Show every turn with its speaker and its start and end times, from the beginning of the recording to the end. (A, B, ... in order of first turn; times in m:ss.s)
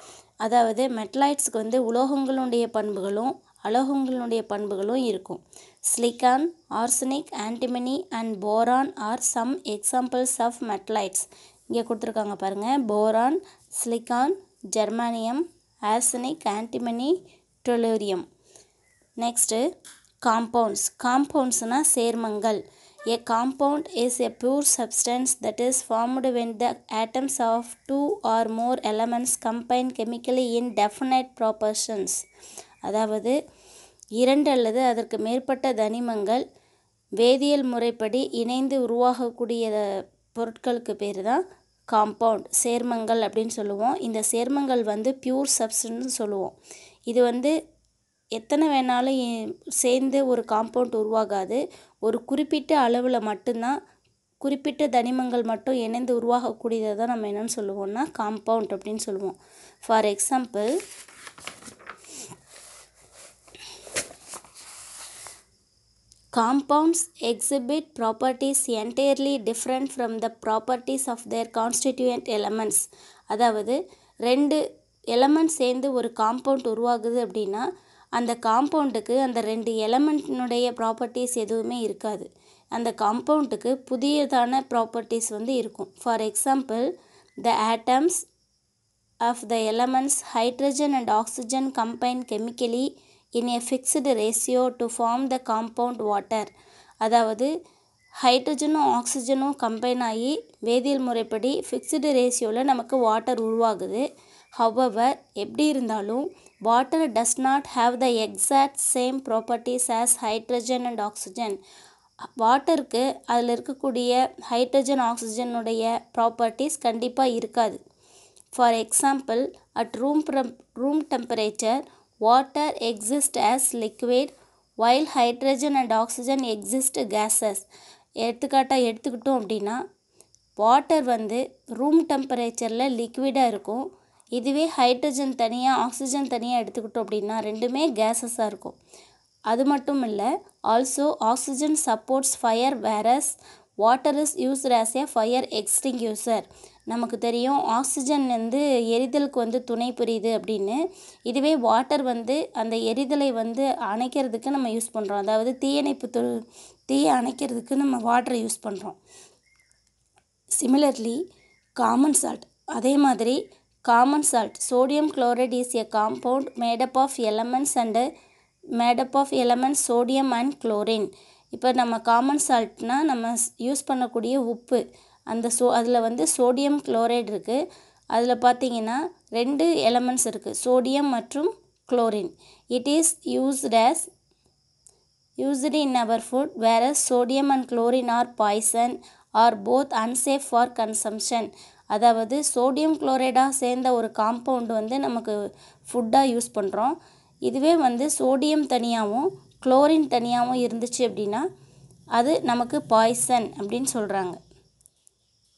0:00.4-0:18.2 A
0:19.2-0:19.6 A
0:20.2-0:32.2 A
0:32.8-0:33.4 A
0:34.2-0:36.4 A
0:37.2-0:39.8 A
0:40.3-0:46.5 A
0:47.1-0:47.5 A
0:48.4-0:53.8 A
0:54.4-1:00.7 A
1:06.3-1:14.6 A
1:15.1-1:26.9 A
1:27.4-1:28.2 A
1:29.2-1:36.5 A
1:37.0-1:37.5 A
1:38.2-1:44.0 A
1:44.6-1:51.6 A
1:52.4-1:57.8 A
1:58.5-2:07.6 A
2:08.2-2:09.8 A
2:10.6-2:13.8 A
2:14.4-2:18.7 A
2:19.5-2:39.0 A
2:40.6-2:41.2 A
2:41.8-2:48.0 A
2:48.8-2:57.6 A
2:58.1-3:04.1 A
3:05.4-3:15.3 A
3:15.9-3:16.9 A
3:17.5-3:21.4 A
3:22.2-3:24.4 A